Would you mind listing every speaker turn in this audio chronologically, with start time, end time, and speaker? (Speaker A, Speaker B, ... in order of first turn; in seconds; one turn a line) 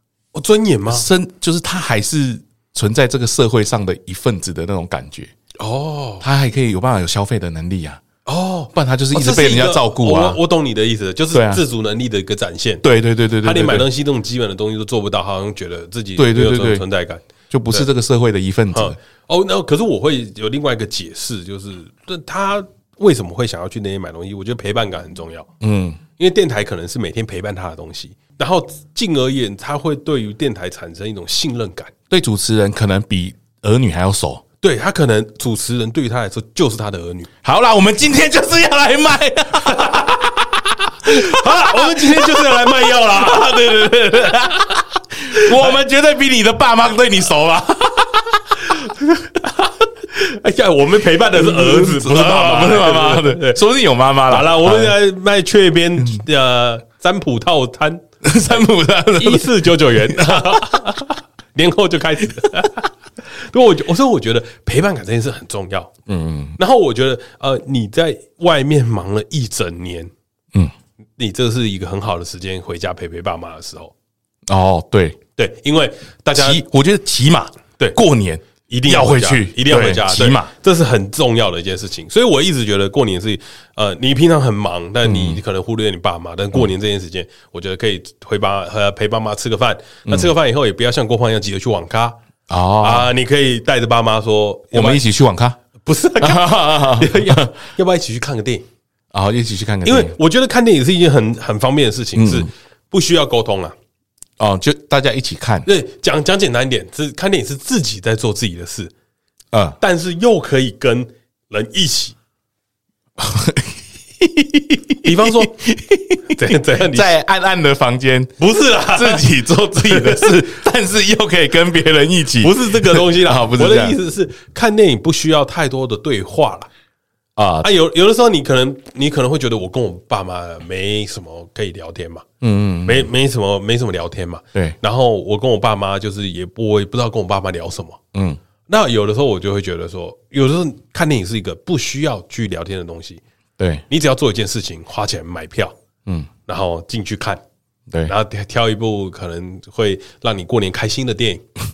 Speaker A: 0.3-1.1
Speaker B: 0.9-5.3
Speaker A: 5.6-6.3
Speaker B: 6.2-8.0
Speaker A: 8.3-12.8
Speaker B: 8.7-10.4
Speaker B: 11.3-11.6
Speaker B: 12.8-13.9
Speaker A: 13.4-17.9
Speaker B: 16.2-16.9
Speaker B: 17.5-19.0
Speaker A: 18.7-25.5
Speaker B: 25.6-26.0
Speaker A: 26.2-31.9
Speaker B: 32.1-34.4
Speaker A: 34.6-37.3
Speaker B: 37.4-48.9
Speaker A: 39.7-40.1
Speaker A: 41.0-43.9
Speaker A: 45.3-45.8
Speaker A: 48.7-53.6
Speaker B: 51.3-55.0
Speaker A: 54.3-58.6
Speaker B: 58.2-61.0
Speaker A: 59.2-65.9
Speaker B: 66.1-66.6
Speaker A: 66.6-70.1
Speaker A: 71.2-73.9
Speaker B: 74.5-75.2
Speaker A: 75.4-76.6
Speaker B: 76.3-80.5
Speaker A: 78.7-92.2
Speaker B: 85.0-85.4
Speaker B: 90.1-90.3
Speaker B: 92.5-93.1
Speaker A: 92.8-95.0
Speaker B: 94.7-95.6
Speaker A: 95.8-98.7
Speaker B: 96.2-97.5
Speaker B: 99.1-100.2
Speaker A: 99.8-103.8
Speaker B: 102.2-102.5
Speaker B: 104.4-105.7
Speaker A: 105.7-108.9
Speaker B: 109.5-109.8
Speaker A: 109.8-112.2
Speaker B: 113.2-124.0
Speaker A: 115.0-115.5
Speaker A: 116.3-117.1
Speaker A: 118.4-120.4
Speaker A: 122.4-126.7
Speaker B: 127.4-127.7
Speaker A: 127.6-132.2
Speaker B: 132.4-133.1
Speaker A: 132.8-138.0
Speaker B: 138.1-138.4
Speaker A: 138.7-143.2
Speaker B: 143.6-143.8
Speaker A: 143.9-145.7
Speaker A: 146.5-147.4
Speaker A: 148.1-151.4